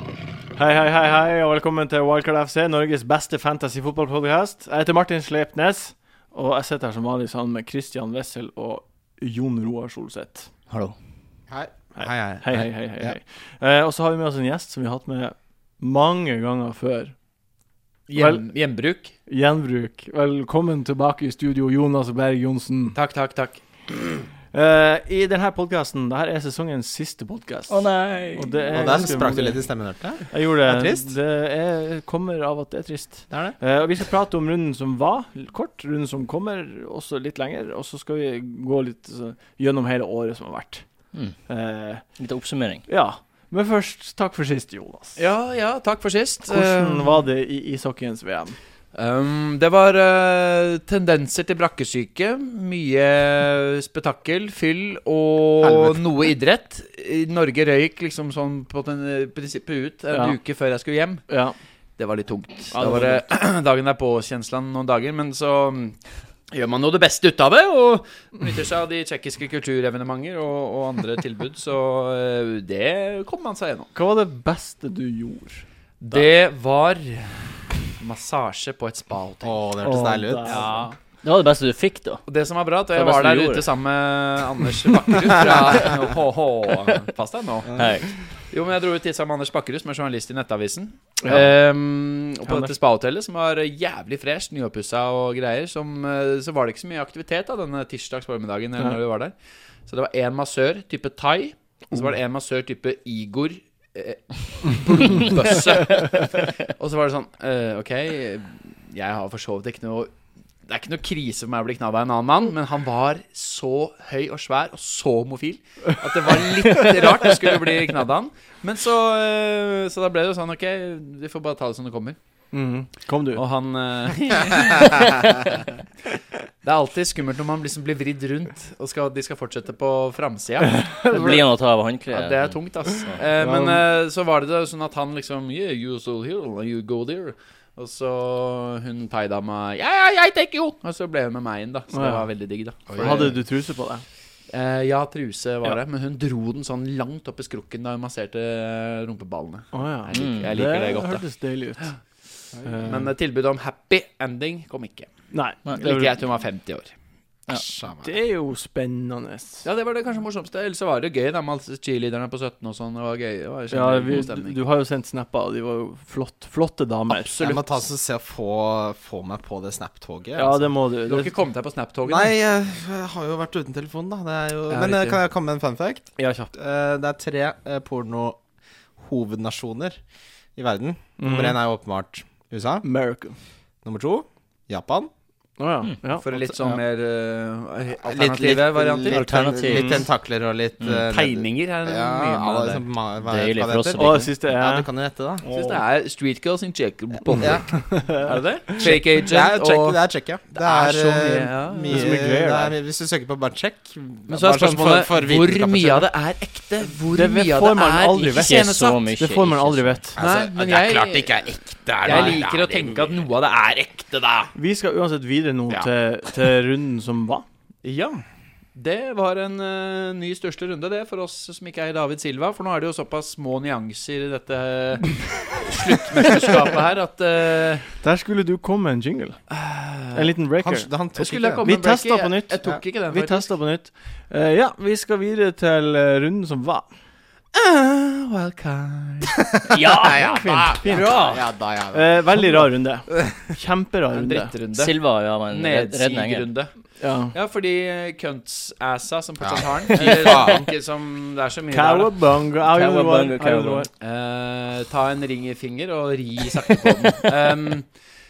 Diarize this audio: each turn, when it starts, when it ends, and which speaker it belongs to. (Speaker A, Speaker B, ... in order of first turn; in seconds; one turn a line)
Speaker A: 0.6-10.5
Speaker B: 10.7-10.9
Speaker C: 11.5-13.2
Speaker A: 12.0-17.1
Speaker D: 18.1-19.1
Speaker A: 18.1-18.4
Speaker A: 19.2-23.0
Speaker D: 22.9-23.6
Speaker A: 24.5-29.7
Speaker B: 27.7-29.0
Speaker C: 28.7-31.1
Speaker A: 30.2-40.8
Speaker C: 33.3-33.6
Speaker A: 41.5-42.1
Speaker B: 42.2-42.8
Speaker A: 42.9-45.2
Speaker D: 45.1-47.1
Speaker A: 46.5-48.6
Speaker D: 48.9-61.2
Speaker C: 55.6-56.0
Speaker A: 60.1-60.4
Speaker A: 61.3-61.5
Speaker D: 62.0-66.0
Speaker A: 62.7-63.3
Speaker D: 66.5-73.9
Speaker A: 73.9-75.6
Speaker D: 76.0-79.6
Speaker C: 79.4-80.7
Speaker A: 79.8-80.9
Speaker D: 80.4-81.0
Speaker B: 81.2-82.2
Speaker D: 82.2-87.8
Speaker B: 82.9-83.7
Speaker B: 87.7-88.1
Speaker D: 88.5-99.3
Speaker A: 91.2-91.5
Speaker A: 92.5-92.7
Speaker D: 99.9-110.1
Speaker D: 110.7-122.2
Speaker A: 122.5-123.4
Speaker D: 123.3-125.4
Speaker D: 126.6-131.4
Speaker B: 131.1-133.2
Speaker D: 132.1-143.3
Speaker A: 133.4-133.8
Speaker A: 141.9-142.3
Speaker C: 142.9-143.3
Speaker A: 142.9-144.0
Speaker D: 144.5-151.2
Speaker A: 149.7-151.9
Speaker B: 150.1-150.5
Speaker C: 152.6-152.9
Speaker A: 152.6-153.1
Speaker D: 152.7-155.1
Speaker A: 155.3-156.2
Speaker D: 155.8-156.9
Speaker C: 157.5-158.1
Speaker A: 158.0-159.6
Speaker D: 159.6-164.5
Speaker A: 163.7-167.3
Speaker D: 167.1-167.7
Speaker C: 167.4-170.7
Speaker A: 170.3-171.3
Speaker D: 171.1-172.3
Speaker C: 172.1-178.4
Speaker D: 174.7-175.2
Speaker A: 176.2-176.5
Speaker C: 179.0-180.0
Speaker C: 180.6-182.8
Speaker A: 181.2-181.6
Speaker A: 182.8-183.4
Speaker C: 183.8-185.1
Speaker A: 185.6-186.3
Speaker D: 186.2-190.0
Speaker C: 188.0-195.4
Speaker B: 189.1-190.1
Speaker D: 191.1-192.8
Speaker B: 193.2-194.3
Speaker A: 193.9-194.9
Speaker A: 195.4-195.8
Speaker D: 195.5-200.0
Speaker A: 197.3-198.8
Speaker C: 197.4-197.7
Speaker C: 198.8-206.1
Speaker D: 200.6-202.1
Speaker A: 201.9-202.8
Speaker D: 204.3-209.0
Speaker A: 207.1-210.2
Speaker B: 208.3-210.0
Speaker C: 210.2-213.2
Speaker D: 210.2-211.4
Speaker D: 212.0-214.5
Speaker A: 214.5-217.4
Speaker D: 217.8-218.2
Speaker D: 218.7-227.9
Speaker A: 228.0-229.4
Speaker D: 229.5-230.3
Speaker A: 230.1-230.9
Speaker C: 230.6-231.7
Speaker D: 231.1-233.5
Speaker A: 231.6-236.9
Speaker D: 237.5-240.2
Speaker C: 239.7-242.6
Speaker A: 239.8-241.3
Speaker D: 240.9-241.4
Speaker A: 241.9-244.5
Speaker D: 244.1-246.7
Speaker B: 244.7-246.5
Speaker A: 247.0-247.3
Speaker D: 247.3-252.2
Speaker C: 249.4-250.7
Speaker A: 251.7-253.9
Speaker B: 252.6-253.9
Speaker D: 254.0-257.9